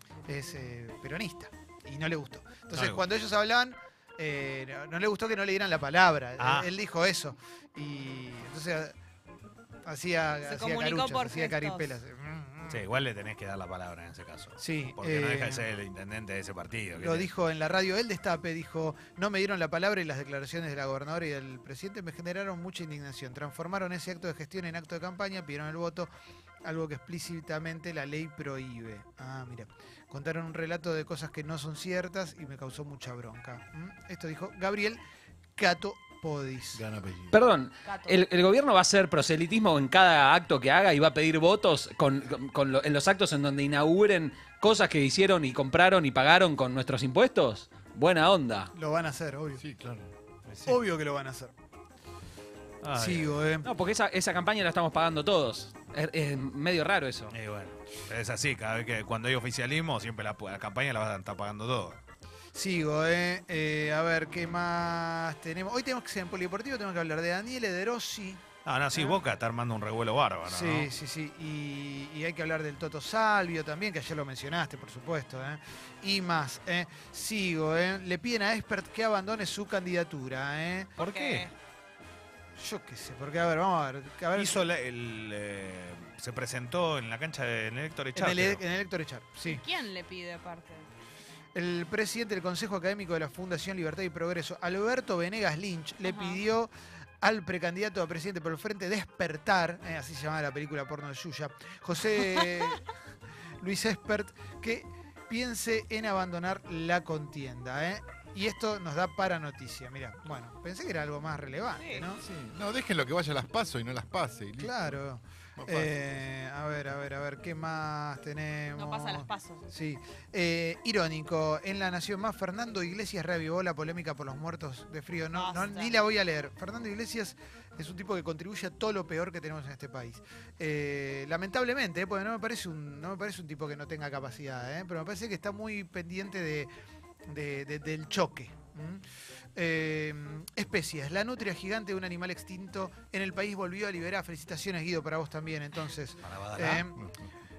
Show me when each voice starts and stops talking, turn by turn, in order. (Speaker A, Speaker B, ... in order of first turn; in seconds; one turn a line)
Speaker A: 0.3-8.9
Speaker B: 2.7-3.0
Speaker B: 6.4-6.7
Speaker A: 9.9-12.8
Speaker C: 10.5-11.9
Speaker B: 12.7-17.3
Speaker A: 14.6-15.7
Speaker A: 17.0-26.1
Speaker A: 26.6-35.0
Speaker A: 35.6-36.8
Speaker D: 36.7-37.4
Speaker E: 37.3-48.7
Speaker C: 37.9-38.1
Speaker A: 48.7-49.6
Speaker D: 49.6-50.1
Speaker B: 50.5-50.8
Speaker A: 50.7-51.5
Speaker B: 52.8-53.5
Speaker A: 53.0-53.7
Speaker E: 53.6-57.3
Speaker B: 57.3-62.0
Speaker A: 62.5-68.4
Speaker B: 68.7-70.9
Speaker A: 69.0-69.2
Speaker A: 70.5-81.0
Speaker B: 81.0-81.5
Speaker C: 81.1-81.5
Speaker A: 82.6-84.6
Speaker B: 84.3-88.6
Speaker A: 88.2-89.6
Speaker C: 89.5-90.8
Speaker A: 91.5-102.9
Speaker C: 96.0-96.4
Speaker A: 103.6-112.2
Speaker C: 111.8-112.1
Speaker D: 112.2-115.0
Speaker A: 114.6-136.7
Speaker D: 115.6-116.2
Speaker C: 118.8-119.7
Speaker C: 125.3-125.9
Speaker A: 137.3-139.0
Speaker A: 139.6-147.0
Speaker B: 146.2-146.9
Speaker D: 147.0-147.2